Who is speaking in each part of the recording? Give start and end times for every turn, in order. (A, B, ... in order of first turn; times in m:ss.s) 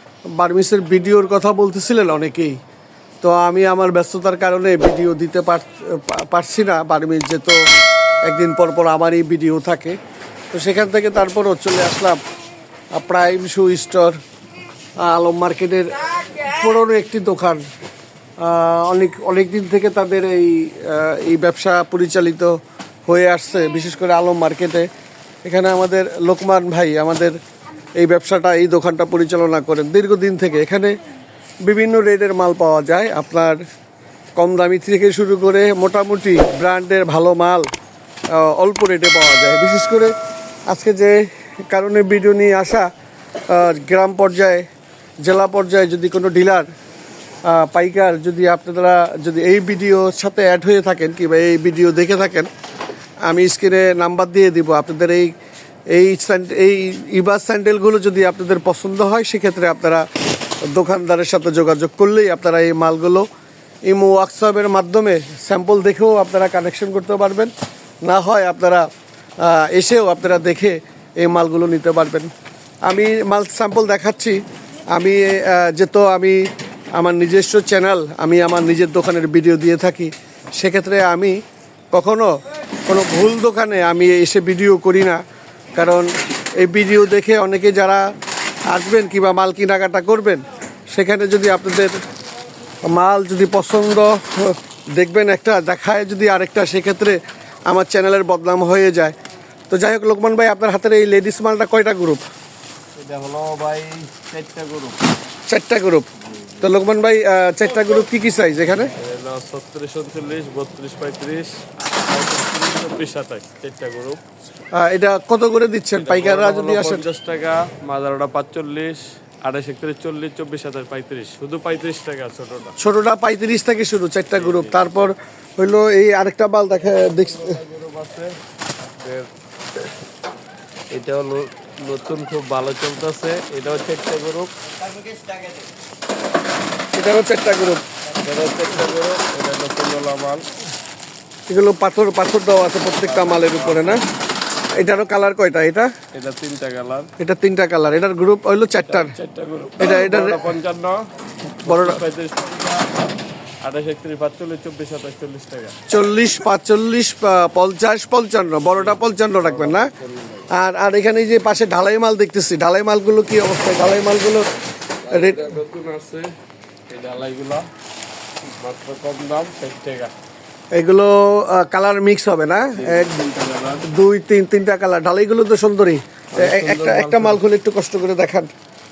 0:00.3-0:02.6 A
0:03.2-0:07.6 A
0:08.2-0:10.0 A
0:10.5-0:12.2 A
0:12.9-0:14.2 A
0:15.0-0:17.6 A
0:18.4-0:22.5 A
0:23.1-0:24.9 A
0:25.4-0:27.4 A
0:28.0-0:31.0 A
0:31.6-0:33.6 A
0:34.4-0:37.7 A
0:38.3-0:40.1 A
0:40.7-0:42.9 A
0:43.5-0:44.6 A
0:45.2-0:46.7 A
0:47.5-0:52.5 A
0:53.3-0:55.3 A
0:55.9-1:00.1 A
1:00.7-1:03.3 A
1:03.8-1:07.5 A
1:08.0-1:08.9 A
1:09.4-1:12.3 A
1:12.9-1:14.4 A
1:14.9-1:16.4 A
1:16.9-1:21.4 A
1:21.9-1:25.2 A
1:25.8-1:28.1 A
1:28.7-1:32.0 A
1:32.8-1:39.1 A
1:39.7-1:42.2 A
1:43.0-1:45.0 B
1:45.5-1:46.1 A
1:46.6-1:48.9 A
1:49.0-1:54.2 B
1:54.8-1:57.0 A
1:56.0-2:02.8 B
2:02.8-2:07.6 A
2:04.3-2:04.9 B
2:07.0-2:08.3 B
2:09.0-2:09.3 B
2:10.9-2:14.5 B
2:16.9-2:17.8 A
2:18.2-2:20.4 B
2:21.5-2:24.0 A
2:23.0-2:24.0 B
2:24.8-2:25.9 A
2:26.1-2:27.1 B
2:27.2-2:29.1 A
2:28.8-2:31.0 B
2:29.8-2:30.5 A
2:31.6-2:32.0 A
2:31.6-2:32.9 B
2:33.6-2:35.8 B
2:35.9-2:39.9 A
2:38.8-2:40.5 B
2:40.5-2:44.5 A
2:45.1-2:46.3 B
2:45.1-2:45.4 A
2:46.9-2:47.7 B
2:48.4-2:50.1 B
2:50.7-2:53.2 A
2:52.8-2:53.8 B
2:53.8-2:58.5 A
2:56.3-2:57.4 B